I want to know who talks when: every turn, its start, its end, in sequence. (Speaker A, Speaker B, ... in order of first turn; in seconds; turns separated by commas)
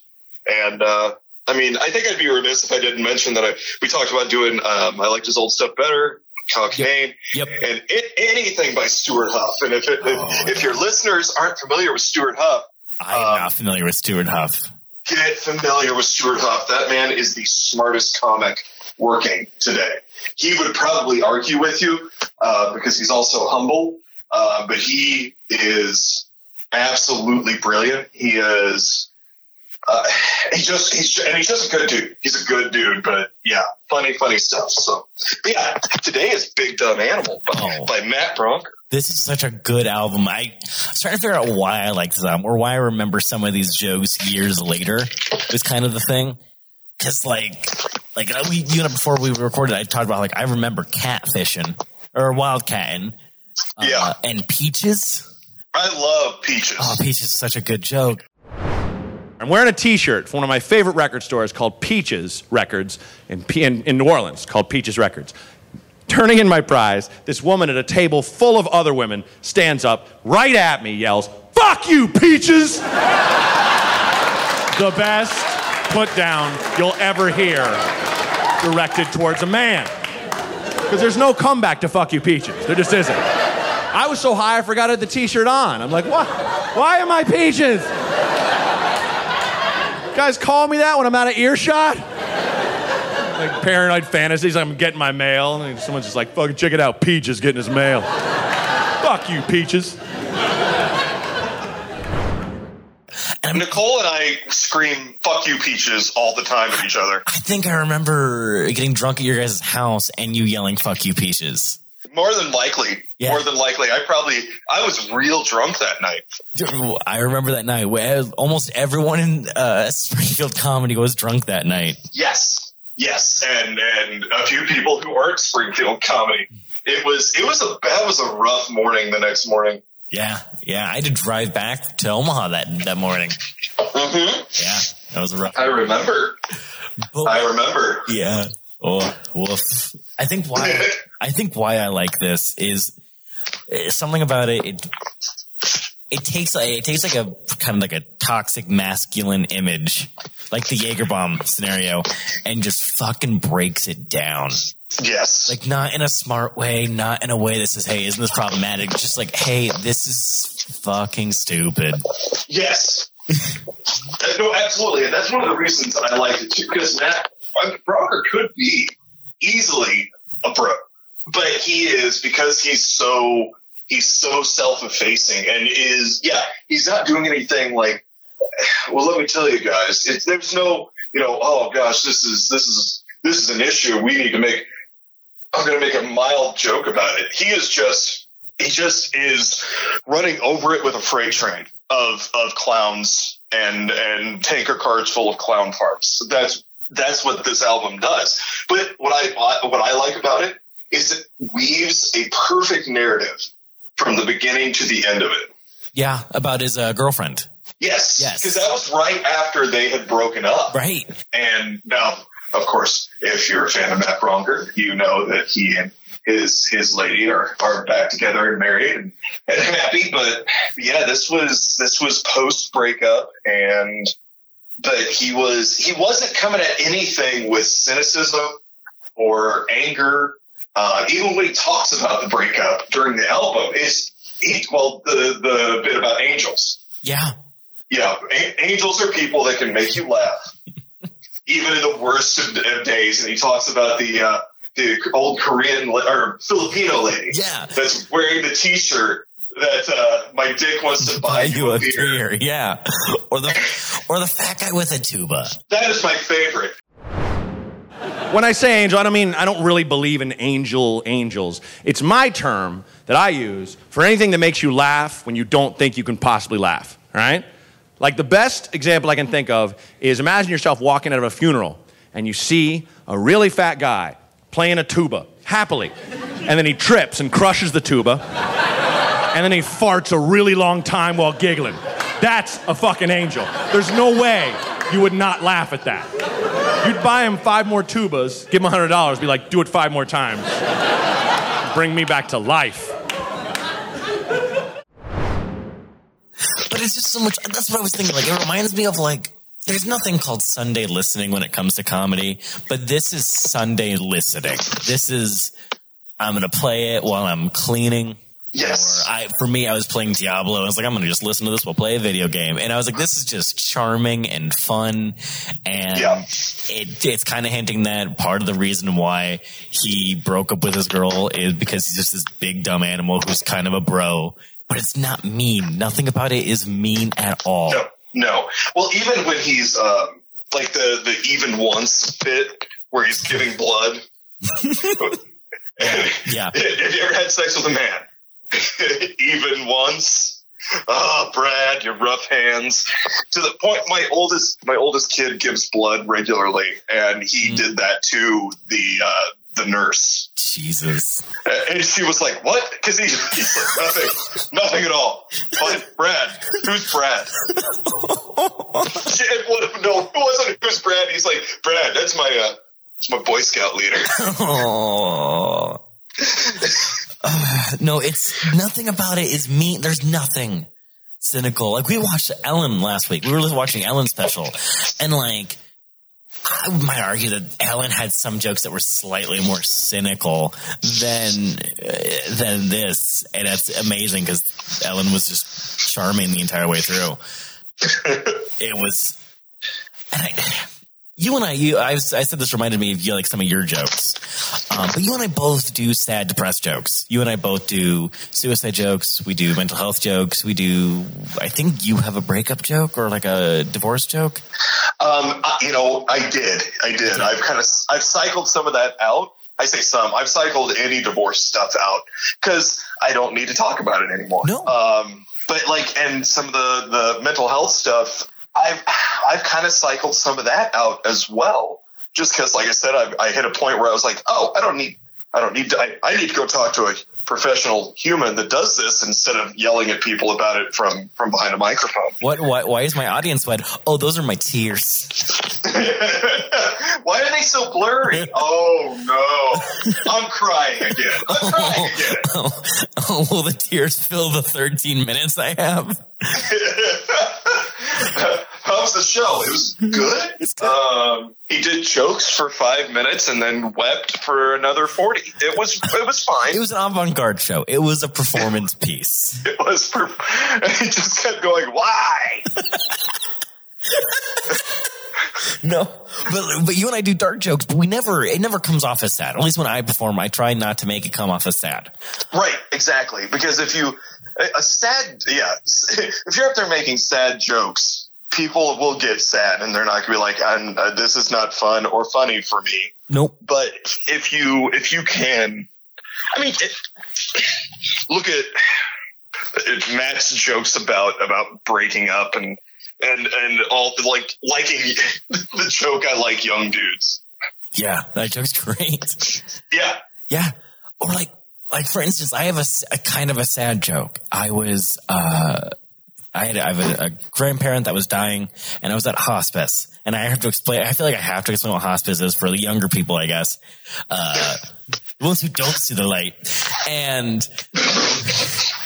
Speaker A: 0.5-13.5, Speaker B: 6.8-7.6, Speaker B: 10.0-10.8, Speaker B: 13.0-14.7, Speaker A: 15.1-29.1, Speaker A: 29.9-38.7, Speaker B: 37.5-37.9, Speaker B: 38.9-46.4, Speaker B: 47.0-53.2, Speaker B: 53.8-55.3, Speaker A: 53.8-54.1, Speaker A: 55.7-57.0, Speaker B: 56.8-58.2, Speaker C: 59.4-65.3, Speaker C: 66.1-72.9, Speaker C: 74.7-77.8, Speaker C: 78.6-79.9, Speaker C: 80.9-83.2, Speaker C: 83.9-87.9, Speaker C: 90.1-92.1, Speaker C: 93.3-98.1, Speaker C: 99.0-100.0, Speaker B: 103.4-103.7, Speaker A: 103.5-107.2, Speaker B: 107.3-111.8, Speaker A: 112.1-116.3, Speaker B: 113.2-113.5, Speaker B: 116.6-122.0, Speaker A: 122.1-129.8, Speaker B: 130.1-133.4, Speaker A: 133.9-134.5, Speaker B: 134.6-135.9, Speaker A: 135.6-136.3, Speaker B: 137.1-137.5, Speaker A: 137.3-138.1, Speaker B: 138.1-142.9, Speaker A: 140.6-140.9, Speaker B: 143.7-144.9, Speaker B: 146.1-154.6, Speaker A: 155.0-155.6, Speaker B: 155.5-162.1, Speaker A: 162.5-163.1, Speaker A: 164.2-178.0, Speaker A: 178.6-184.7, Speaker A: 185.5-205.5, Speaker B: 205.9-207.5, Speaker A: 207.8-210.8, Speaker B: 208.2-208.7, Speaker B: 210.7-211.1, Speaker A: 211.3-224.1, Speaker A: 224.8-228.6, Speaker A: 229.2-236.8, Speaker B: 237.0-237.3, Speaker A: 237.9-240.4, Speaker A: 241.5-252.2, Speaker B: 247.3-247.7, Speaker B: 251.0-255.6, Speaker A: 255.7-256.8, Speaker C: 258.3-267.4, Speaker C: 268.0-275.9, Speaker C: 276.4-278.2, Speaker C: 279.3-286.1, Speaker C: 286.8-290.5, Speaker C: 291.7-293.0, Speaker B: 296.7-305.5, Speaker B: 306.2-327.8, Speaker A: 308.5-309.1, Speaker A: 315.9-316.2, Speaker A: 327.7-334.0, Speaker B: 334.5-335.2, Speaker A: 335.8-350.3, Speaker B: 335.8-336.6, Speaker B: 350.4-351.3, Speaker A: 351.4-357.3, Speaker B: 357.5-359.1, Speaker A: 359.0-364.1, Speaker B: 364.1-365.8, Speaker A: 366.3-366.8, Speaker B: 367.2-370.7, Speaker B: 371.2-375.6, Speaker B: 376.5-387.2, Speaker A: 387.9-388.3, Speaker B: 388.6-389.2, Speaker B: 390.1-404.4, Speaker A: 405.0-432.2, Speaker B: 414.4-414.8, Speaker B: 432.2-435.3, Speaker A: 435.6-442.3, Speaker B: 439.6-440.0, Speaker B: 441.2-446.4, Speaker A: 446.4-456.6, Speaker B: 450.4-450.8, Speaker B: 456.5-459.4, Speaker A: 459.4-462.5, Speaker B: 464.4-464.6, Speaker B: 465.6-471.9, Speaker A: 472.3-485.7, Speaker B: 483.1-483.4, Speaker A: 486.4-486.8, Speaker A: 488.1-488.6, Speaker A: 489.6-497.2, Speaker B: 497.8-499.4, Speaker A: 499.7-500.0, Speaker B: 500.3-505.7, Speaker B: 506.4-513.6, Speaker B: 514.1-514.6, Speaker B: 515.2-517.5, Speaker B: 518.2-518.6